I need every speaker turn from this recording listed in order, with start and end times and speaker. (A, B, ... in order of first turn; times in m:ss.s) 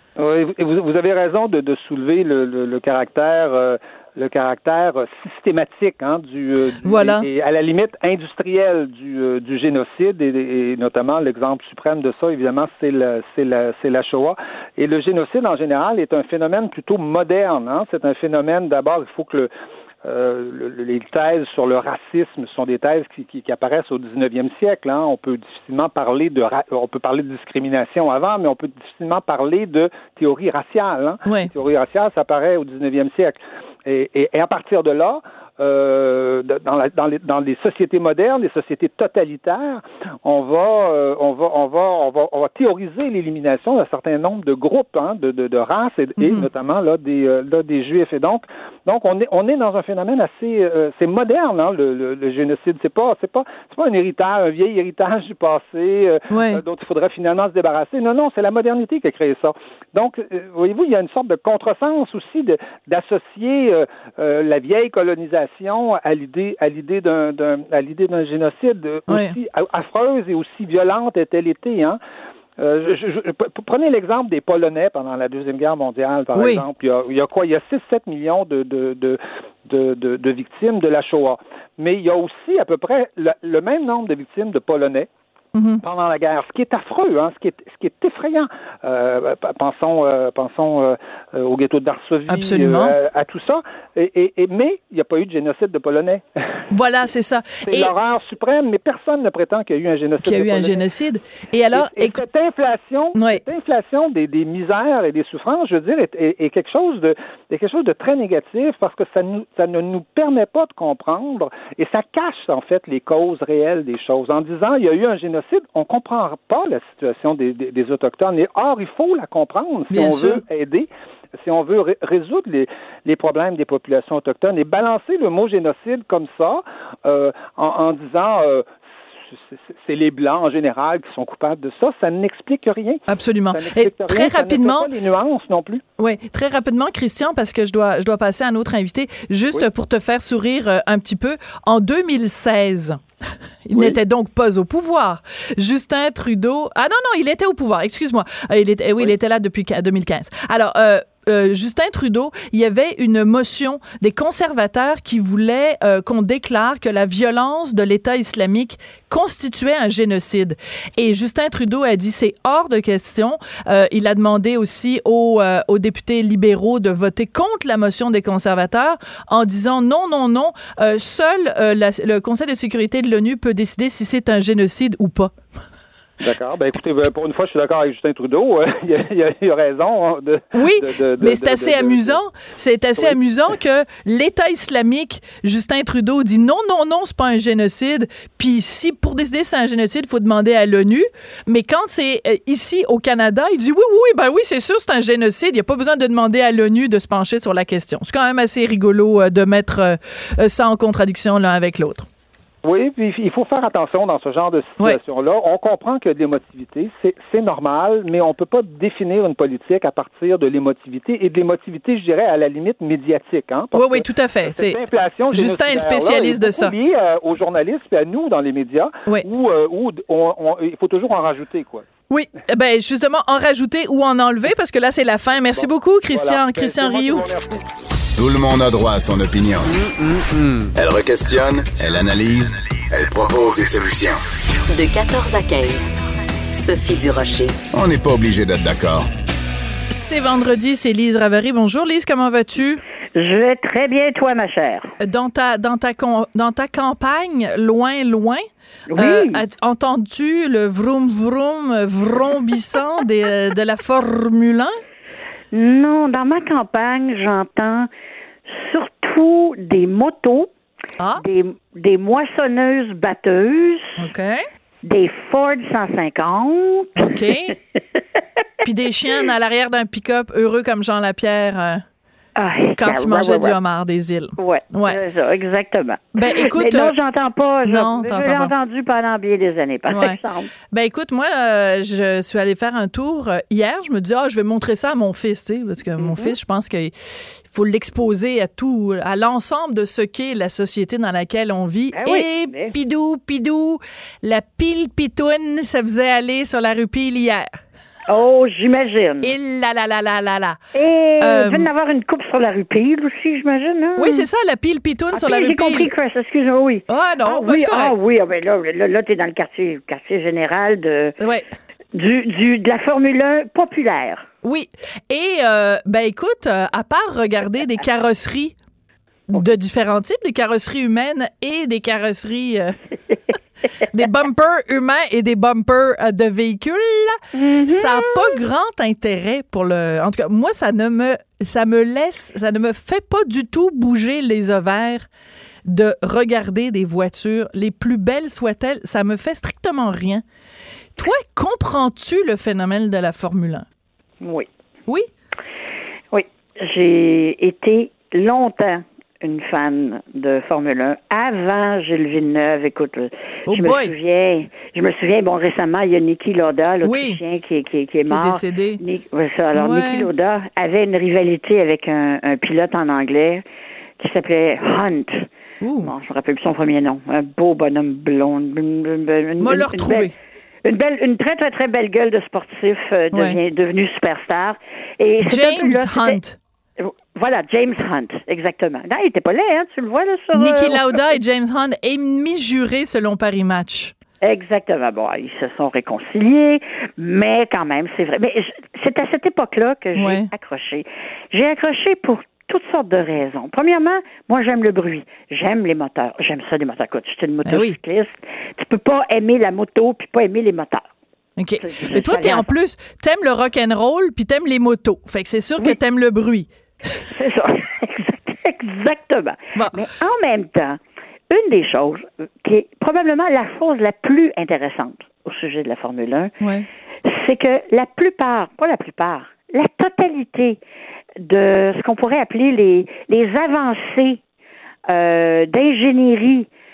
0:00.2-0:19.5 A
0:06.8-0:07.3 B
0:20.0-1:12.0 A
0:46.2-0:46.5 B
0:56.3-0:56.6 B
1:09.1-1:09.4 B
1:12.6-1:25.1 A
1:16.3-1:16.6 B
1:25.6-1:25.8 B
1:25.8-1:36.4 A
1:32.3-1:32.9 B
1:36.7-1:37.9 B
1:37.6-1:40.8 A
1:40.2-1:42.2 B
1:41.7-2:00.9 A
1:43.2-1:43.4 B
1:59.9-2:00.4 B
2:01.4-2:08.7 A
2:09.7-2:13.0 A
2:13.1-2:14.9 B
2:13.5-2:15.8 A
2:16.0-2:23.0 B
2:23.7-2:55.3 B
2:56.2-3:02.2 A
3:00.5-3:22.1 B
3:22.6-3:41.9 A
3:33.7-3:34.8 B
3:35.3-3:36.7 B
3:42.1-3:47.3 B
3:45.5-3:47.7 A
3:48.2-3:49.9 C
3:50.4-3:54.2 C
3:54.7-3:55.9 D
3:56.5-3:57.6 D
3:57.7-3:59.1 C
3:59.9-4:02.8 B
4:03.2-4:04.9 E
4:05.0-4:08.4 B
4:08.9-4:09.4 E
4:09.0-4:14.8 B
4:15.5-4:17.9 E
4:18.5-4:20.5 E
4:21.0-4:21.2 B
4:21.2-4:24.0 E
4:24.0-4:24.5 B
4:24.8-4:27.2 E
4:27.0-4:27.6 B
4:28.6-4:31.8 B
4:32.4-4:33.6 E
4:32.8-4:35.0 B
4:34.4-4:40.5 E
4:36.2-4:36.9 B
4:37.6-4:38.5 B
4:39.9-4:40.2 B
4:40.7-4:46.9 B
4:46.0-4:46.4 E
4:47.5-4:57.5 B
4:51.9-4:52.7 E
4:58.1-4:59.4 E
4:59.2-5:00.6 B
5:00.7-5:04.2 E
5:01.2-5:01.7 B
5:04.0-5:05.9 B
5:05.1-5:11.2 E
5:06.9-5:07.9 B
5:11.2-5:11.5 B
5:11.9-5:14.3 E
5:14.4-5:18.6 B
5:19.3-5:22.8 B
5:23.9-5:35.1 B
5:27.3-5:28.4 E
5:35.7-5:40.2 B
5:41.0-5:43.7 B
5:44.2-5:44.5 E
5:46.1-6:03.4 E
5:53.5-5:53.9 B
5:56.8-5:57.2 B
5:58.1-5:58.8 B
5:59.5-6:00.1 B
6:04.0-6:05.3 E
6:05.6-6:05.9 B
6:05.8-6:10.1 E
6:09.4-6:10.2 B
6:10.6-6:16.2 E
6:13.1-6:13.4 B
6:15.2-6:16.4 B
6:16.8-6:20.9 E
6:20.3-6:23.9 B
6:24.2-6:40.9 E
6:30.0-6:30.3 B
6:37.4-6:37.8 B
6:41.4-6:47.1 B
6:41.6-6:42.5 E
6:47.1-6:50.8 E
6:51.3-6:56.3 E
6:56.4-6:56.7 B
6:57.1-7:00.6 E
7:01.2-7:04.2 E
7:04.9-7:06.5 E